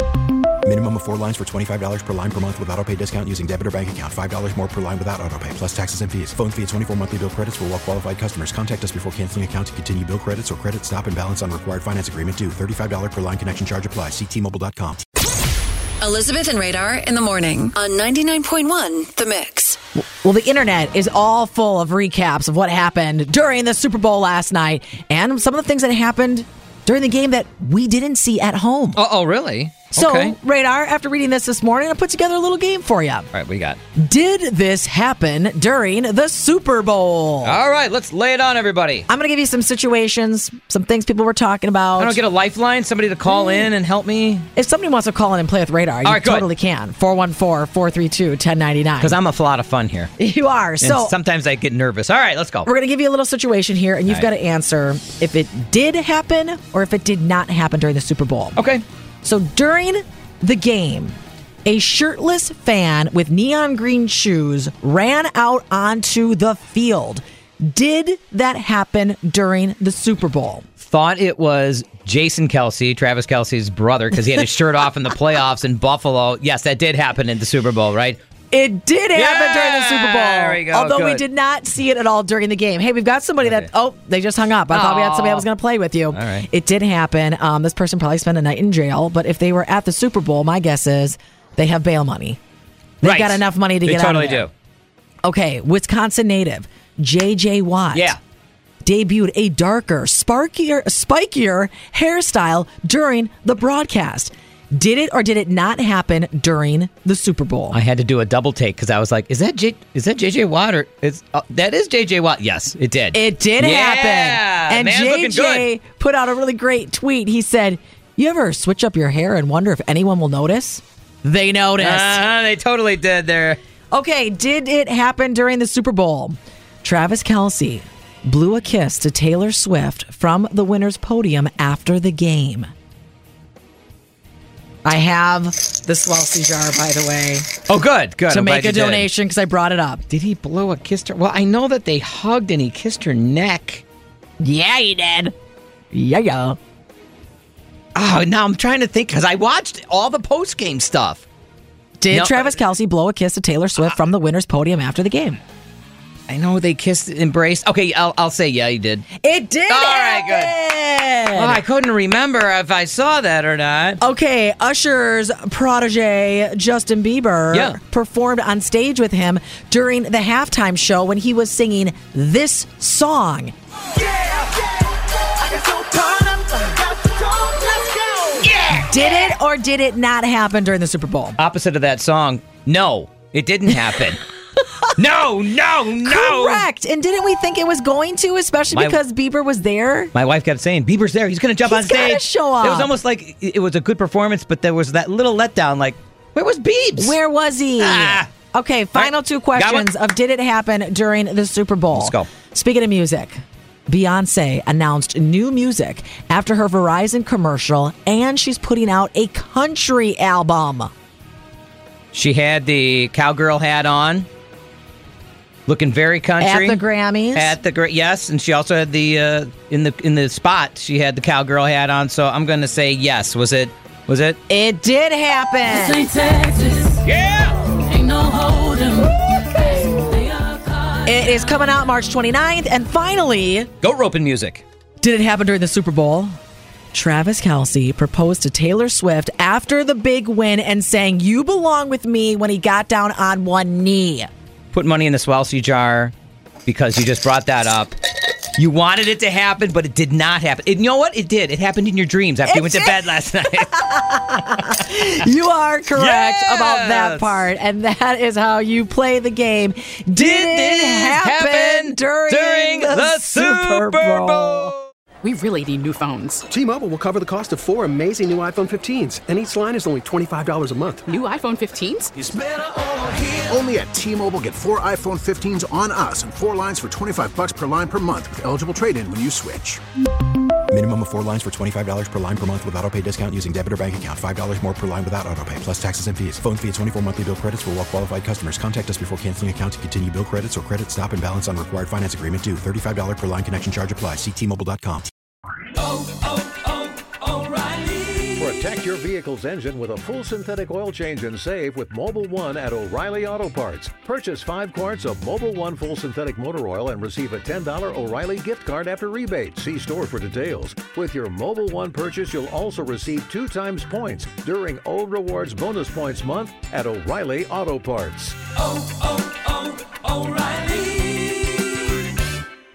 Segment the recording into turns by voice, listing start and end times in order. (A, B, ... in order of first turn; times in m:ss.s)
0:00.6-0:15.0 A
0:16.0-0:19.8 B
0:20.0-0:29.0 C
0:28.9-0:30.3 D
0:29.9-0:33.3 C
0:33.3-0:33.8 D
0:34.0-0:37.6 C
0:37.4-0:39.0 D
0:39.1-0:42.2 C
0:42.0-0:44.5 D
0:44.5-0:49.2 C
0:46.0-0:46.4 D
0:49.0-0:50.1 D
0:50.2-0:51.1 C
0:50.8-0:52.7 D
0:52.6-0:58.6 C
0:58.6-0:58.8 D
0:59.2-1:10.6 C
1:10.8-1:18.2 D
1:18.5-1:32.4 C
1:19.1-1:21.2 D
1:23.4-1:23.7 D
1:24.7-1:25.5 D
1:26.1-1:26.4 D
1:33.0-1:34.5 C
1:33.0-1:34.5 D
1:35.2-1:38.2 C
1:37.9-1:38.2 D
1:38.8-1:47.8 C
1:47.7-1:55.7 D
1:53.1-2:02.2 C
2:01.8-2:03.6 D
2:03.9-2:12.7 C
2:14.8-2:17.5 C
2:17.7-2:19.1 D
2:18.3-2:20.0 C
2:20.1-2:23.8 D
2:24.4-2:25.3 C
2:25.9-2:26.6 C
2:27.9-2:31.2 D
2:32.0-2:35.4 C
2:32.1-2:32.6 D
2:36.3-2:39.1 D
2:39.2-2:41.6 C
2:39.7-2:40.6 D
2:41.3-2:44.0 D
2:44.0-2:53.5 C
2:55.7-2:56.4 E
2:58.8-3:01.4 C
3:01.4-3:04.2 D
3:04.9-3:06.6 D
3:06.0-3:10.1 C
3:08.7-3:09.0 D
3:10.1-3:17.2 D
3:11.6-3:12.9 C
3:17.0-3:30.9 C
3:17.8-3:18.3 D
3:19.0-3:19.8 D
3:21.9-3:22.3 D
3:32.1-3:34.3 D
3:35.7-3:36.8 D
3:36.4-3:37.6 C
3:37.3-3:44.4 D
3:44.5-3:46.2 C
3:47.0-3:47.8 D
3:51.0-3:53.7 C
3:53.8-3:54.6 D
3:55.0-3:56.4 C
3:56.9-4:04.3 C
4:04.7-4:06.1 D
4:06.6-4:07.9 D
4:08.6-4:15.0 D
4:12.4-4:24.7 C
4:15.9-4:17.5 D
4:20.2-4:24.8 D
4:25.2-4:26.5 F
4:26.5-4:31.0 E
4:31.0-4:32.1 F
4:32.2-4:39.8 G
4:40.7-4:55.1 A
4:58.4-5:18.4 H